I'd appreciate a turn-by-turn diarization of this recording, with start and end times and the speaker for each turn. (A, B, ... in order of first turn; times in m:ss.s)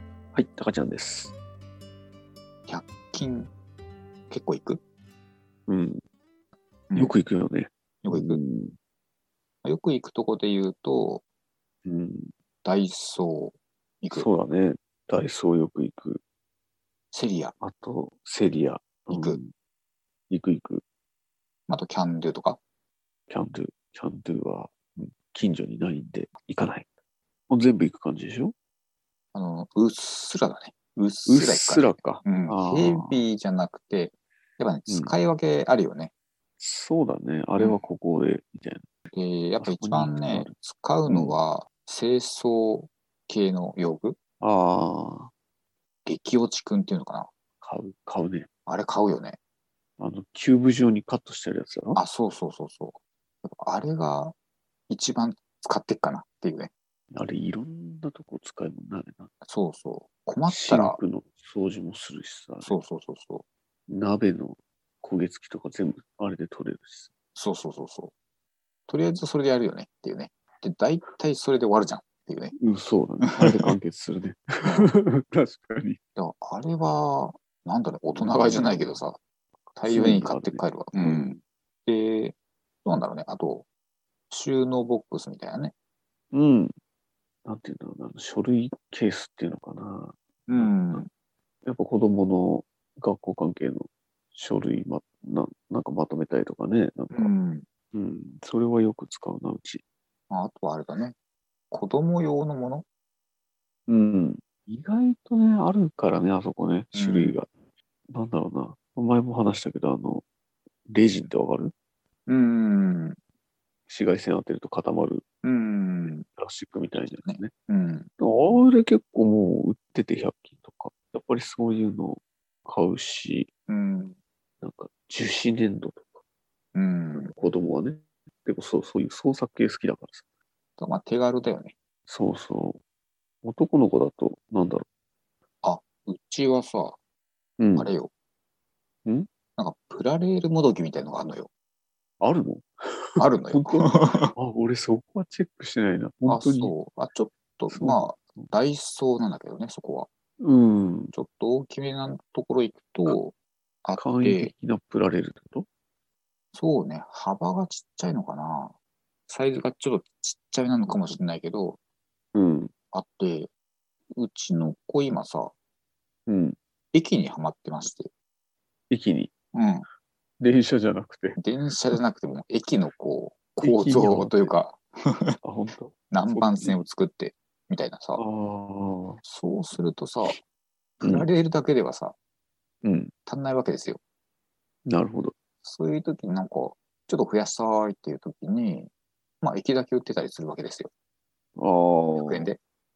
0:00.3-0:01.3 A
0:02.7-0:03.5 B
0:04.3-0:04.8 B
0:05.7-0:06.0 A
0:06.9-0:07.1 B
0:06.9-0:08.7 A
0:08.0-0:08.4 B
0:09.6-0:11.2 B
0:11.8-0:12.3 A
0:12.6-0:14.3 B
0:14.1-0:16.2 A
0:17.1-0:17.5 B
0:17.6-0:19.5 A
0:19.1-0:19.4 B
0:20.3-0:20.8 A
0:21.7-0:22.6 B
0:23.3-0:26.9 A
0:27.5-0:28.5 A
0:29.3-0:36.1 B
0:31.2-0:33.2 A
0:34.9-0:35.2 A
0:36.6-0:38.9 A
0:37.6-0:37.8 B
0:39.1-0:44.2 B
0:39.6-0:40.5 A
0:41.1-0:41.4 A
0:44.4-0:45.3 A
0:46.0-0:47.3 B
0:47.6-0:48.5 A
0:48.7-0:49.4 B
0:50.0-0:52.0 A
0:52.0-0:54.3 B
0:54.9-0:56.7 B
0:57.1-0:59.3 A
0:59.4-1:01.0 B
1:00.5-1:02.8 A
1:02.6-1:03.4 B
1:03.9-1:07.1 A
1:07.4-1:08.1 B
1:08.9-1:12.5 B
1:12.6-1:16.0 A
1:13.3-1:13.6 B
1:14.6-1:14.9 B
1:16.2-1:19.2 B
1:18.1-1:19.0 A
1:19.8-1:21.3 B
1:19.8-1:21.4 A
1:21.8-1:23.6 B
1:24.3-1:25.7 B
1:26.3-1:26.7 A
1:27.4-1:31.0 A
1:30.5-1:31.1 B
1:31.6-1:37.3 A
1:37.1-1:37.6 B
1:37.9-1:39.8 A
1:40.3-1:41.1 B
1:41.7-1:42.8 B
1:43.9-1:47.5 A
1:46.9-1:47.4 B
1:48.1-1:50.2 A
1:50.9-1:51.7 A
1:52.3-1:53.2 B
1:53.9-1:55.2 A
1:55.4-1:56.2 B
1:56.3-1:57.5 A
1:57.0-1:58.1 B
1:58.2-2:03.5 A
2:03.7-2:04.2 B
2:04.6-2:06.2 A
2:06.7-2:07.3 B
2:07.1-2:10.2 A
2:10.8-2:11.7 B
2:12.1-2:12.8 A
2:13.4-2:14.8 A
2:15.6-2:17.0 B
2:17.6-2:17.9 A
2:17.8-2:18.1 B
2:19.6-2:21.5 B
2:22.2-2:26.7 A
2:23.2-2:24.3 B
2:26.3-2:30.1 B
2:27.7-2:28.5 A
2:30.4-2:31.1 A
2:31.1-2:34.5 B
2:33.9-2:35.7 A
2:36.5-2:38.7 B
2:39.3-2:41.8 B
2:40.9-2:41.2 A
2:42.3-2:42.7 A
2:42.9-2:43.5 B
2:44.1-2:45.5 B
2:46.3-2:46.6 A
2:46.9-2:48.1 B
2:48.9-2:49.3 A
2:49.5-2:49.9 B
2:50.4-2:51.4 A
2:51.4-2:55.4 B
2:53.6-2:54.5 A
2:55.4-2:56.8 A
2:56.1-2:58.2 B
2:58.2-2:59.2 A
2:59.2-3:00.4 B
3:01.0-3:02.1 B
3:01.0-3:01.3 A
3:02.8-3:03.1 A
3:03.2-3:04.0 B
3:04.8-3:05.3 A
3:05.6-3:08.9 B
3:09.4-3:10.9 B
3:11.6-3:12.5 A
3:12.2-3:12.6 B